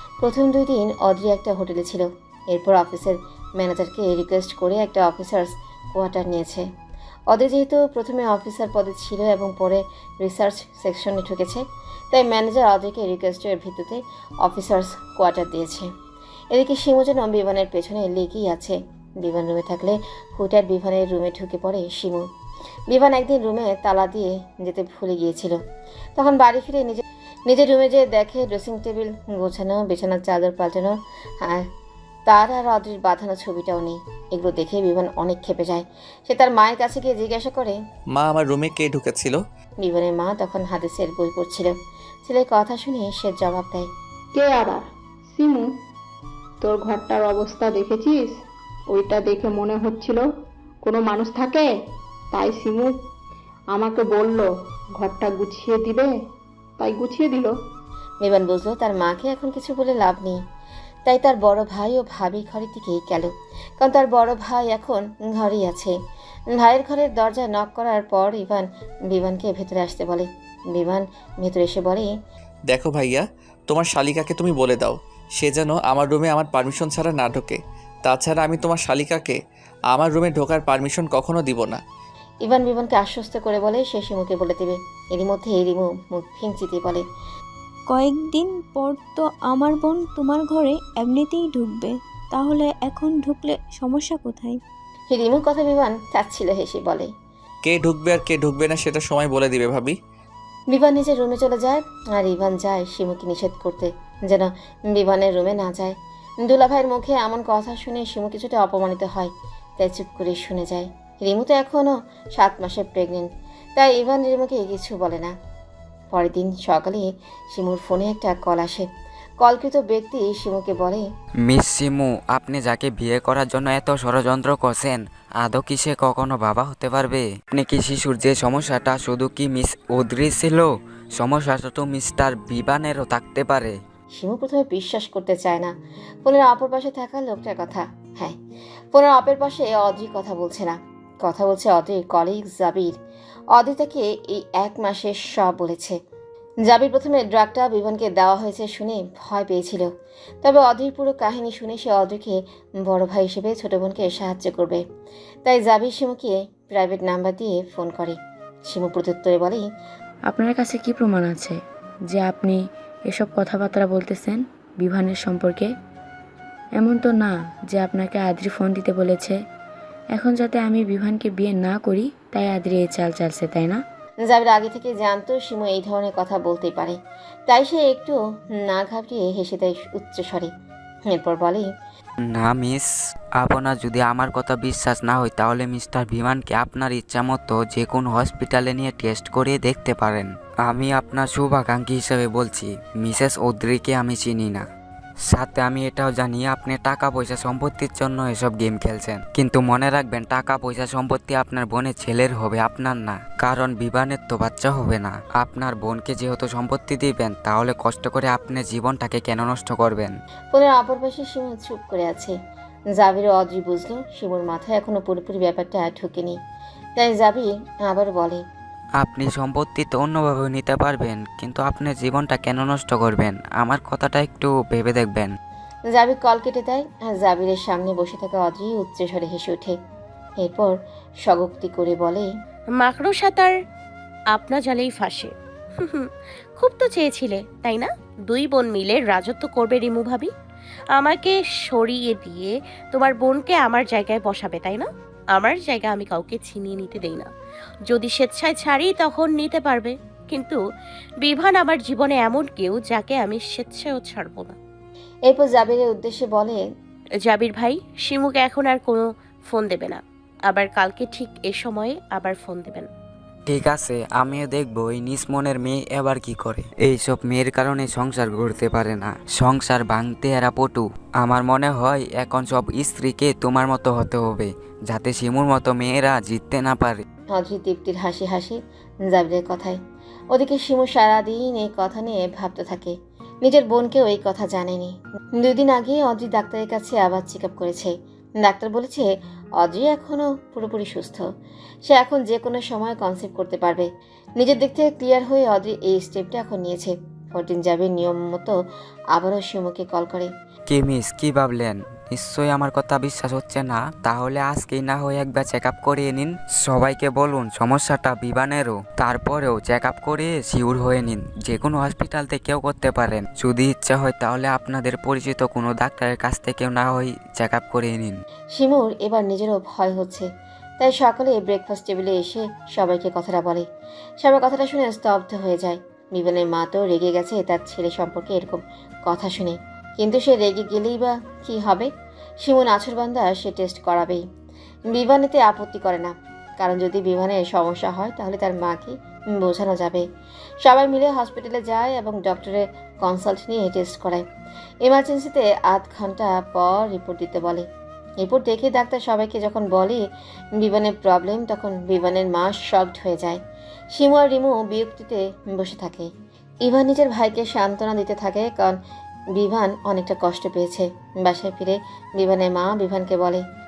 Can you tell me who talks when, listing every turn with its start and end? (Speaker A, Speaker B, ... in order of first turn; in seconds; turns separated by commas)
Speaker A: 0.2-6.7, Speaker A: 7.3-15.9, Speaker A: 16.5-22.2, Speaker A: 22.9-25.6, Speaker A: 26.1-31.6, Speaker A: 32.3-37.8, Speaker B: 38.1-39.4, Speaker A: 39.8-41.7, Speaker A: 42.2-43.9, Speaker C: 44.3-45.6, Speaker C: 46.6-48.3, Speaker C: 48.9-50.2, Speaker C: 50.8-51.7, Speaker C: 52.3-52.9, Speaker C: 53.7-54.5, Speaker C: 55.0-56.1, Speaker C: 56.8-57.5, Speaker A: 58.2-60.4, Speaker A: 61.1-63.3, Speaker A: 63.8-65.9, Speaker A: 66.5-72.1, Speaker B: 72.7-79.4, Speaker B: 79.9-81.8, Speaker A: 82.4-87.0, Speaker D: 87.9-94.6, Speaker A: 95.1-97.1, Speaker B: 97.6-99.9, Speaker A: 100.7-115.3, Speaker A: 116.1-118.8, Speaker A: 119.4-121.0, Speaker E: 121.5-133.7, Speaker A: 134.2-135.7, Speaker A: 136.2-138.3, Speaker A: 138.9-142.9, Speaker A: 143.6-146.0, Speaker A: 146.7-149.9, Speaker A: 150.4-154.8, Speaker A: 155.4-158.2, Speaker A: 158.7-159.7, Speaker F: 160.3-161.6, Speaker F: 162.1-165.7, Speaker F: 166.8-169.4, Speaker F: 170.1-173.8, Speaker A: 174.2-180.5, Speaker A: 181.1-181.7, Speaker E: 182.2-194.7, Speaker E: 195.2-210.1, Speaker A: 210.5-212.3, Speaker A: 213.0-216.4, Speaker A: 217.0-218.4, Speaker E: 219.0-225.3, Speaker A: 225.9-229.8, Speaker A: 230.4-232.3, Speaker G: 232.8-233.5, Speaker G: 234.3-235.3, Speaker G: 236.6-240.3, Speaker G: 240.9-247.3, Speaker G: 247.9-250.6, Speaker G: 251.2-254.5, Speaker A: 255.3-256.6, Speaker G: 257.3-262.9, Speaker E: 263.5-277.0, Speaker A: 277.3-278.6, Speaker A: 279.1-279.8, Speaker A: 280.3-291.2, Speaker A: 291.9-293.9, Speaker A: 294.4-298.5, Speaker A: 299.1-300.3, Speaker E: 300.7-318.2, Speaker A: 318.5-320.3, Speaker A: 320.8-323.6, Speaker A: 324.2-331.9, Speaker A: 332.4-334.2, Speaker A: 334.9-340.0, Speaker A: 340.6-344.2, Speaker A: 344.8-347.6, Speaker A: 348.2-350.0, Speaker A: 350.6-353.4, Speaker A: 353.9-356.1, Speaker A: 356.6-358.8, Speaker A: 359.4-363.4